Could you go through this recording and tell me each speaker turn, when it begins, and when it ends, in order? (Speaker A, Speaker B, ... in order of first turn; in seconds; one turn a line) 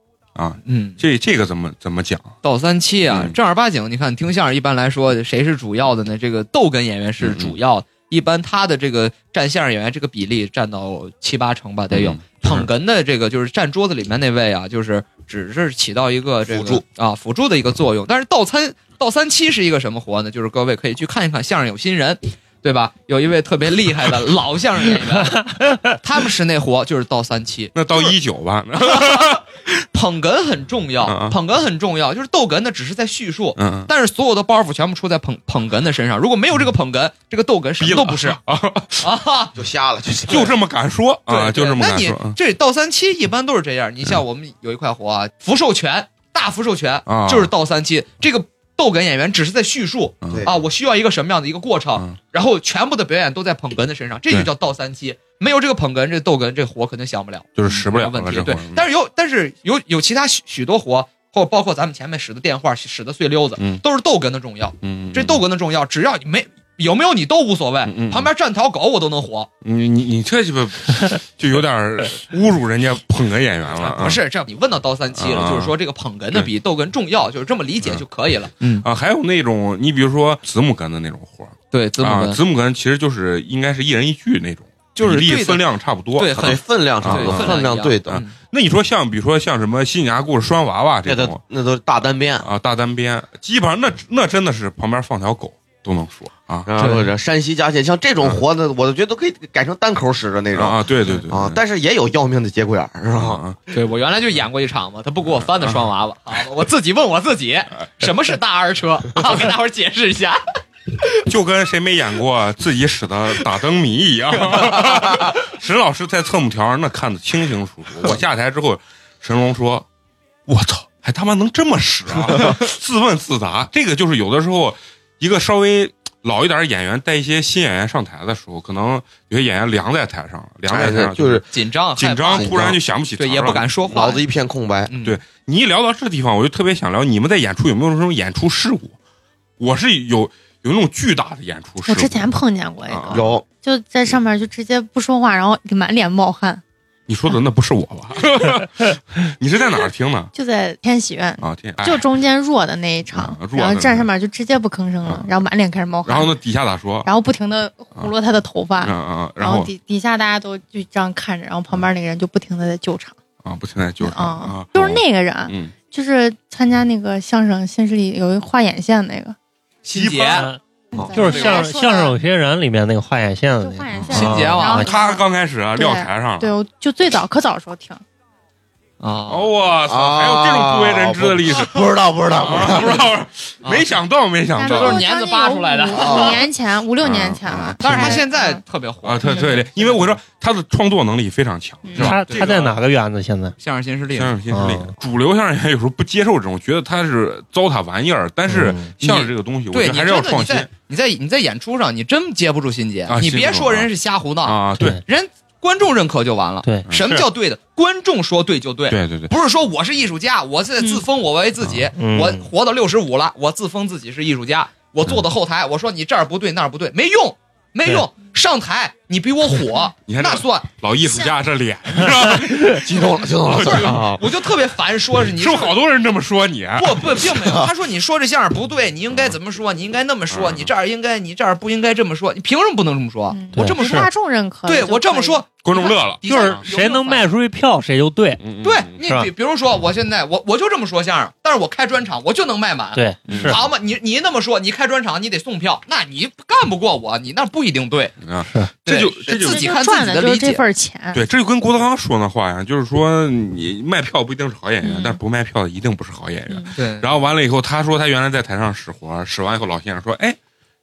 Speaker A: 0.3-2.4
Speaker B: 0.6-1.0
Speaker B: 2.4-28.1
Speaker A: 3.1-3.3
Speaker A: 7.2-7.6
Speaker A: 11.9-12.7
Speaker C: 16.5-16.8
Speaker A: 27.7-29.4
Speaker B: 28.8-38.4
Speaker A: 31.0-31.4
Speaker A: 33.6-33.9
Speaker A: 37.8-39.1
Speaker B: 39.0-39.5
Speaker C: 39.5-40.5
Speaker A: 40.3-42.4
Speaker B: 41.3-69.5
Speaker A: 47.0-47.5
Speaker A: 57.6-58.9
Speaker A: 64.8-65.4
Speaker A: 67.9-68.3
Speaker A: 69.6-74.2
Speaker B: 73.8-78.9
Speaker A: 75.2-75.7
Speaker A: 78.8-86.5
Speaker B: 81.7-82.4
Speaker B: 85.0-85.6
Speaker B: 86.1-88.3
Speaker C: 86.3-88.2
Speaker A: 87.0-91.4
Speaker C: 91.0-92.5
Speaker A: 92.4-96.7
Speaker C: 96.7-103.4
Speaker A: 100.5-101.6
Speaker A: 103.1-103.6
Speaker B: 103.7-110.4
Speaker A: 105.5-105.8
Speaker A: 111.2-119.8
Speaker B: 114.5-115.1
Speaker A: 120.5-131.4
Speaker C: 130.7-131.4
Speaker B: 131.5-134.2
Speaker A: 132.0-133.7
Speaker C: 132.3-132.8
Speaker C: 133.8-134.9
Speaker B: 134.9-135.2
Speaker A: 135.0-138.9
Speaker A: 139.6-142.3
Speaker D: 141.8-146.6
Speaker A: 142.9-143.3
Speaker C: 143.1-143.4
Speaker A: 147.1-150.3
Speaker D: 150.3-156.3
Speaker A: 151.4-152.1
Speaker A: 153.1-154.1
Speaker A: 155.0-155.3
Speaker A: 156.0-157.1
Speaker D: 157.0-163.2
Speaker A: 158.8-159.7
Speaker A: 163.4-165.7
Speaker D: 164.0-169.3
Speaker B: 169.8-170.5
Speaker A: 169.9-170.4
Speaker E: 170.2-170.6
Speaker D: 170.9-172.2
Speaker C: 170.9-171.2
Speaker E: 171.1-174.9
Speaker B: 171.2-171.8
Speaker D: 173.6-175.2
Speaker A: 174.1-176.5
Speaker B: 174.1-174.9
Speaker D: 175.8-178.0
Speaker B: 179.0-179.5
Speaker A: 179.3-185.0
Speaker C: 179.9-183.1
Speaker B: 183.6-183.9
Speaker D: 184.6-188.6
Speaker B: 184.6-186.5
Speaker A: 187.0-188.0
Speaker B: 187.8-190.2
Speaker E: 187.9-188.2
Speaker A: 189.0-192.5
Speaker D: 191.9-192.2
Speaker E: 192.0-193.6
Speaker B: 192.0-192.8
Speaker B: 193.6-194.3
Speaker A: 194.1-200.7
Speaker E: 194.5-194.9
Speaker E: 198.5-198.9
Speaker B: 199.0-220.7
Speaker A: 203.1-203.9
Speaker A: 204.4-205.0
Speaker E: 206.6-207.2
Speaker A: 206.9-207.2
Speaker A: 208.9-209.3
Speaker E: 212.0-212.4
Speaker A: 220.1-224.1
Speaker C: 222.6-224.2
Speaker B: 224.1-225.7
Speaker A: 225.3-227.3
Speaker B: 226.8-234.1
Speaker A: 230.3-230.7
Speaker D: 233.3-235.4
Speaker E: 233.5-234.1
Speaker B: 234.7-237.3
Speaker A: 235.6-236.6
Speaker E: 236.2-238.4
Speaker A: 238.4-238.9
Speaker B: 238.6-248.1
Speaker E: 239.0-239.3
Speaker E: 242.9-243.6
Speaker A: 243.3-243.6
Speaker A: 248.2-249.7
Speaker B: 248.8-250.6
Speaker D: 249.3-251.2
Speaker A: 251.1-260.4
Speaker D: 254.8-255.2
Speaker B: 256.8-257.3